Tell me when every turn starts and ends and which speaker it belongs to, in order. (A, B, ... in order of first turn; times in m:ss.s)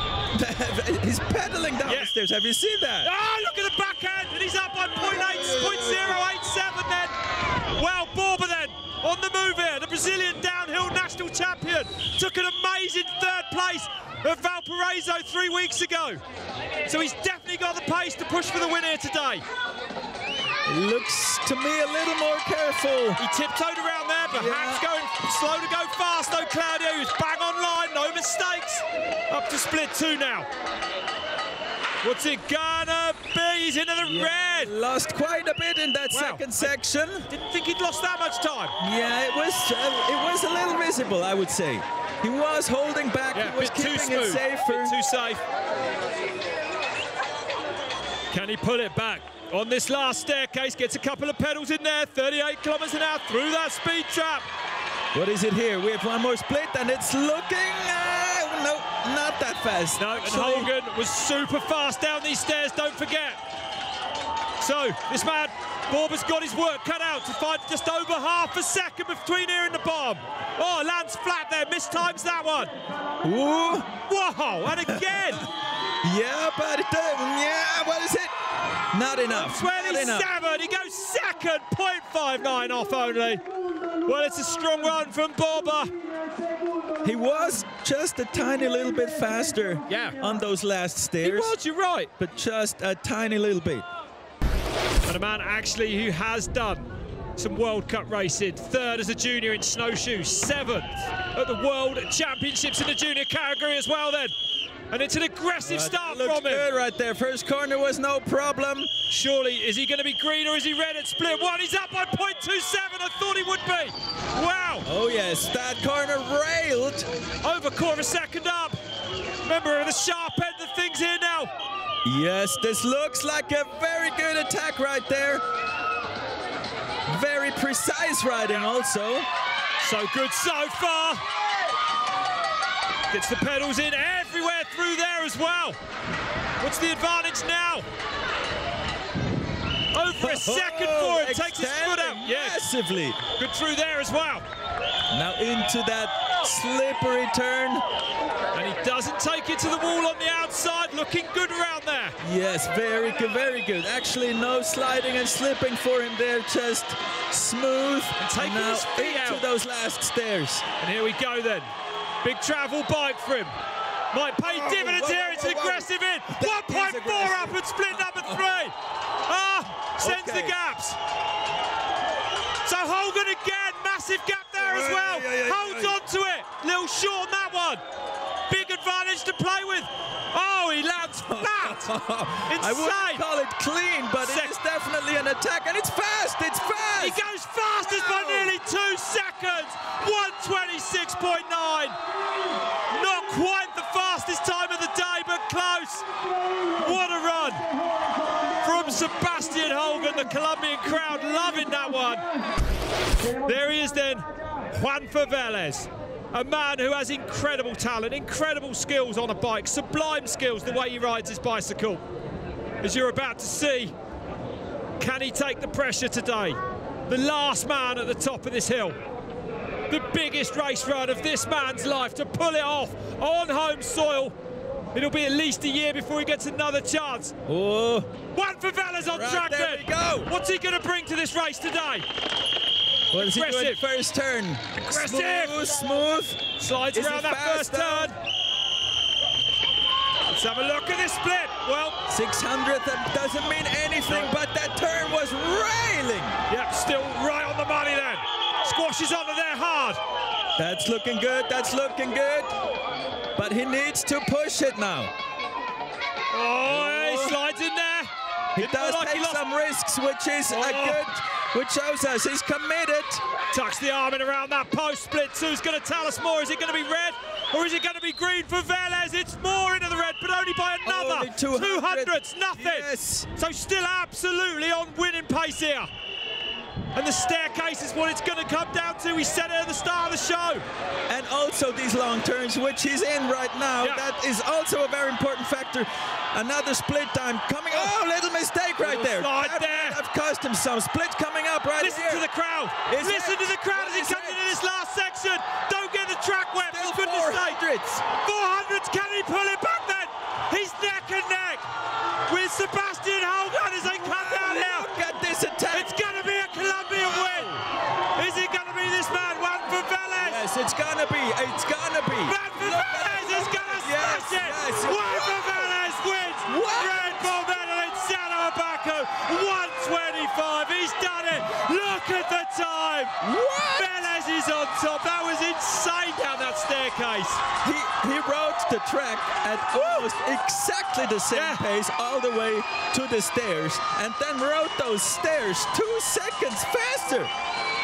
0:00.3-0:03.1 A
0:01.8-0:02.1 B
0:03.0-0:07.2 B
0:05.2-0:06.0 A
0:07.7-0:16.2 B
0:16.8-0:19.4 B
0:20.7-0:23.2 A
0:23.2-0:30.5 B
0:24.3-0:24.8 A
0:32.0-0:34.7 B
0:34.0-0:37.3 A
0:36.1-0:36.7 B
0:37.3-0:38.8 B
0:38.8-0:45.0 A
0:43.3-0:45.4 B
0:48.3-0:54.4 B
0:55.1-1:00.7 A
1:00.0-1:03.4 B
1:04.6-1:12.7 B
1:13.2-1:13.9 A
1:14.1-1:15.5 B
1:16.0-1:18.3 A
1:18.9-1:20.3 A
1:19.3-1:23.4 B
1:24.1-1:25.9 B
1:27.0-1:31.5 A
1:29.9-1:30.2 B
1:31.2-1:32.1 B
1:32.2-1:33.8 A
1:35.1-1:44.3 B
1:44.9-1:46.7 B
1:45.6-1:48.9 A
1:49.1-1:54.9 B
1:54.8-1:57.1 A
1:57.4-1:58.8 B
1:59.4-2:01.5 B
2:02.0-2:05.4 A
2:07.1-2:09.3 A
2:09.8-2:11.2 B
2:13.1-2:15.8 B
2:16.6-2:17.8 B
2:19.9-2:22.6 B
2:20.2-2:23.2 A
2:23.4-2:24.4 B
2:25.1-2:27.8 A
2:28.5-2:32.2 B
2:32.2-2:40.6 A
2:38.2-2:39.5 B
2:40.8-2:41.7 B
2:42.2-2:43.5 B
2:44.1-2:48.7 B
2:44.4-2:48.4 A
2:49.2-2:51.0 B
2:50.0-2:50.6 A
2:52.6-2:57.8 B
2:54.6-2:56.0 A
2:58.5-3:01.9 B
3:01.3-3:07.2 A
3:02.5-3:03.2 B
3:04.2-3:04.5 B
3:07.0-3:12.0 B
3:07.8-3:08.5 A
3:12.9-3:16.0 B
3:16.8-3:17.6 B
3:18.6-3:22.3 B
3:23.4-3:32.0 B
3:32.8-3:33.9 B
3:35.0-3:39.0 B
3:39.9-3:44.3 B
3:44.9-3:47.3 B
3:47.5-3:48.1 A
3:48.3-3:52.0 B
3:49.0-3:50.3 A
3:53.1-3:56.4 A
3:53.1-3:53.8 B
3:54.8-3:55.6 B
3:56.6-3:58.2 B
3:56.9-3:58.1 A
4:00.2-4:02.0 B
4:02.1-4:06.4 A
4:04.1-4:04.3 B
4:06.5-4:10.0 B
4:10.6-4:12.5 A
4:13.4-4:15.1 A
4:16.3-4:19.4 B
4:16.6-4:17.4 A
4:18.6-4:23.2 A
4:20.5-4:21.1 B
4:23.5-4:35.9 B
4:30.8-4:33.3 A
4:36.9-4:40.6 B
4:41.1-4:52.2 A
4:48.8-4:50.0 B
4:51.8-5:01.6 B
4:52.9-4:54.6 A
4:56.7-4:58.0 A
5:02.3-5:04.9 B
5:03.8-5:06.0 A
5:05.7-5:07.6 B
5:07.2-5:07.4 A
5:08.2-5:10.4 B
5:10.2-5:15.8 A
5:12.2-5:23.2 B
5:16.5-5:17.4 A
5:23.2-5:23.9 A
5:23.7-5:27.4 B
5:27.6-5:37.3 A
5:31.3-5:31.6 B